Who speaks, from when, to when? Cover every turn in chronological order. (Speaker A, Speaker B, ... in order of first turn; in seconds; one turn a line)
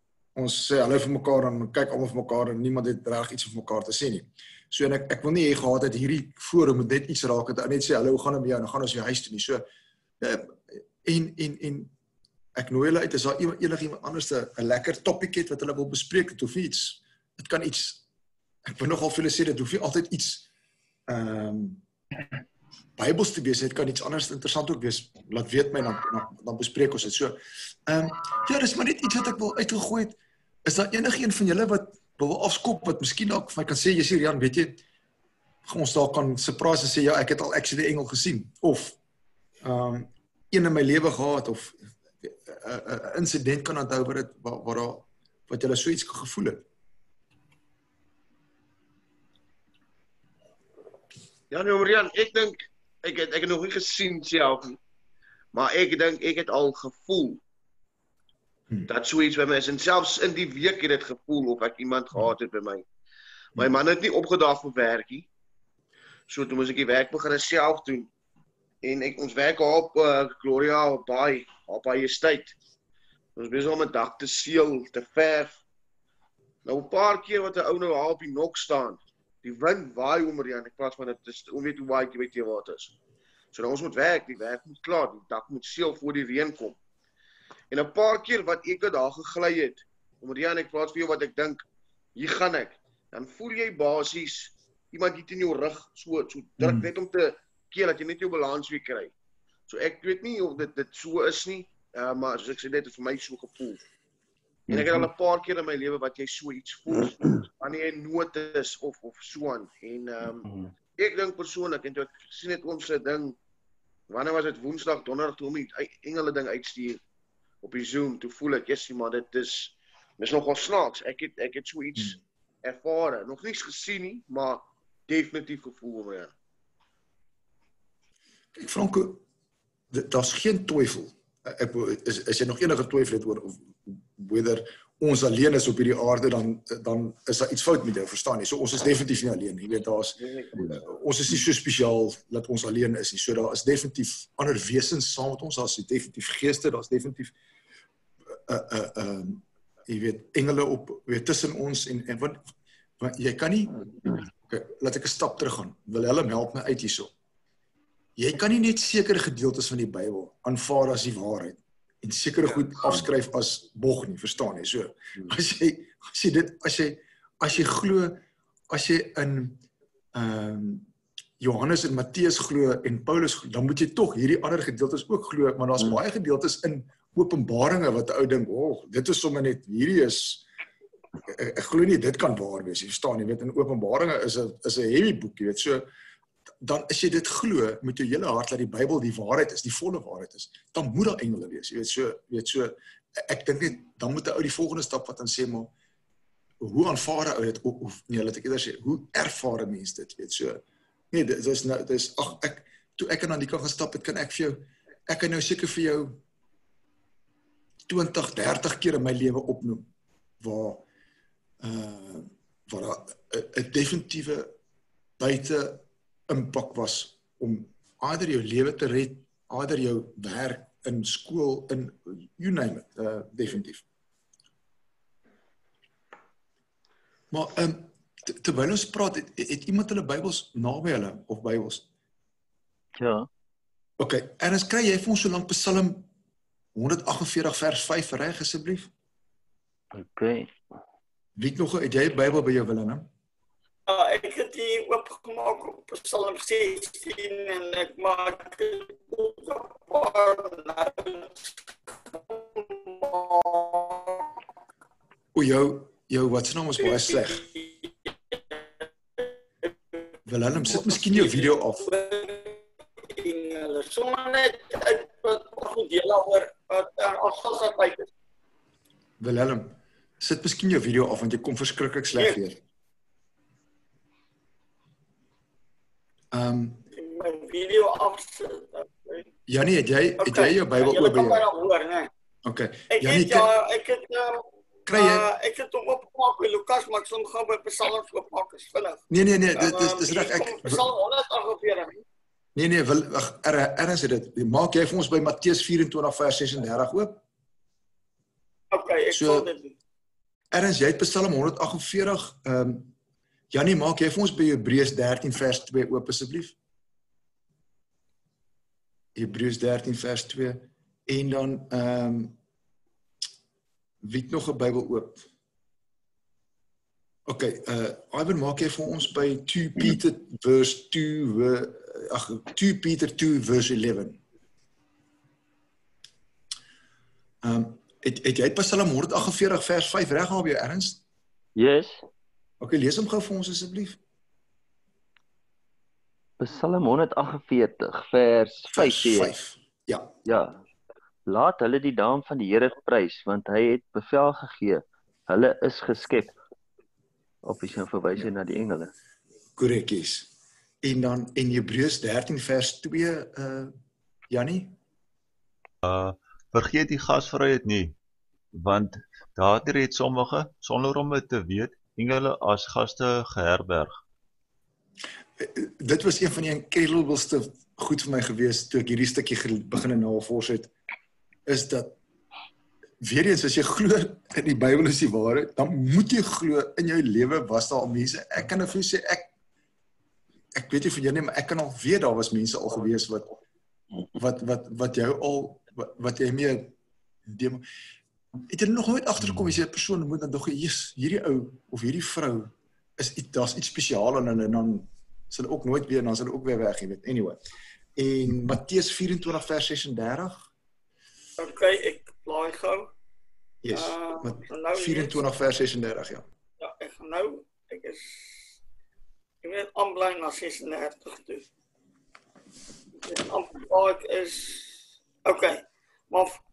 Speaker A: 0.3-9.7
Speaker A: 10.2-11.9
Speaker A: 12.6-18.0
Speaker A: 18.6-20.5
Speaker A: 21.1-21.8
Speaker A: 23.0-34.8
Speaker A: 35.6-39.0
Speaker A: 39.6-46.6
Speaker B: 51.5-54.8
Speaker B: 55.5-57.4
Speaker B: 58.9-62.9
Speaker B: 63.5-65.3
Speaker B: 66.3-68.1
Speaker B: 68.8-72.6
Speaker B: 73.4-75.6
Speaker B: 76.7-83.0
Speaker B: 83.5-86.8
Speaker B: 87.7-91.6
Speaker B: 92.2-99.1
Speaker B: 99.7-103.8
Speaker B: 104.7-113.4
Speaker B: 114.1-117.0
Speaker B: 117.6-126.3
Speaker A: 128.5-129.2
Speaker A: 129.9-147.3
Speaker A: 148.3-152.4
Speaker A: 153.0-157.1
Speaker A: 158.2-169.6
Speaker A: 170.1-170.9
Speaker A: 171.4-180.4
Speaker A: 181.3-185.9
Speaker A: 186.6-195.7
Speaker A: 196.6-206.2
Speaker A: 207.9-209.9
Speaker A: 210.4-210.8
Speaker A: 211.6-214.5
Speaker A: 215.2-223.8
Speaker A: 227.3-231.8
Speaker C: 233.0-233.3
Speaker A: 234.0-236.1
Speaker A: 236.8-238.9
Speaker C: 239.9-240.5
Speaker A: 241.4-243.1
Speaker D: 243.9-254.3
Speaker A: 255.3-257.5
Speaker D: 257.2-258.6
Speaker D: 259.2-260.0
Speaker A: 260.3-261.9
Speaker D: 260.6-268.1
Speaker A: 269.2-272.6
Speaker A: 276.3-276.9
Speaker D: 276.9-279.3
Speaker A: 279.5-281.4
Speaker D: 280.2-282.1
Speaker A: 282.4-283.5
Speaker D: 282.9-289.0
Speaker A: 284.9-285.3
Speaker A: 289.1-290.9
Speaker D: 289.6-292.0
Speaker A: 292.6-297.2
Speaker D: 298.7-299.8
Speaker A: 299.1-299.5
Speaker A: 300.5-302.9
Speaker A: 303.5-306.6
Speaker A: 309.1-312.4
Speaker A: 314.0-315.3
Speaker A: 317.3-324.2
Speaker A: 327.4-331.0
Speaker C: 331.6-332.1
Speaker A: 332.6-334.0
Speaker C: 336.4-339.3
Speaker A: 338.7-340.1
Speaker C: 340.3-340.6
Speaker C: 341.3-346.4
Speaker C: 347.4-348.9
Speaker A: 349.6-350.3
Speaker A: 350.8-353.8
Speaker A: 354.3-354.8
Speaker E: 355.9-357.9
Speaker E: 358.5-364.0
Speaker A: 365.4-370.7
Speaker A: 371.5-371.9
Speaker A: 373.0-379.3
Speaker A: 380.5-383.3
Speaker A: 384.1-386.7
Speaker A: 387.3-387.7
Speaker A: 388.5-397.4
Speaker A: 398.0-400.5
Speaker D: 401.4-402.9
Speaker A: 403.6-406.3
Speaker D: 403.7-405.2
Speaker D: 406.6-408.4
Speaker D: 409.4-411.4
Speaker D: 413.0-416.4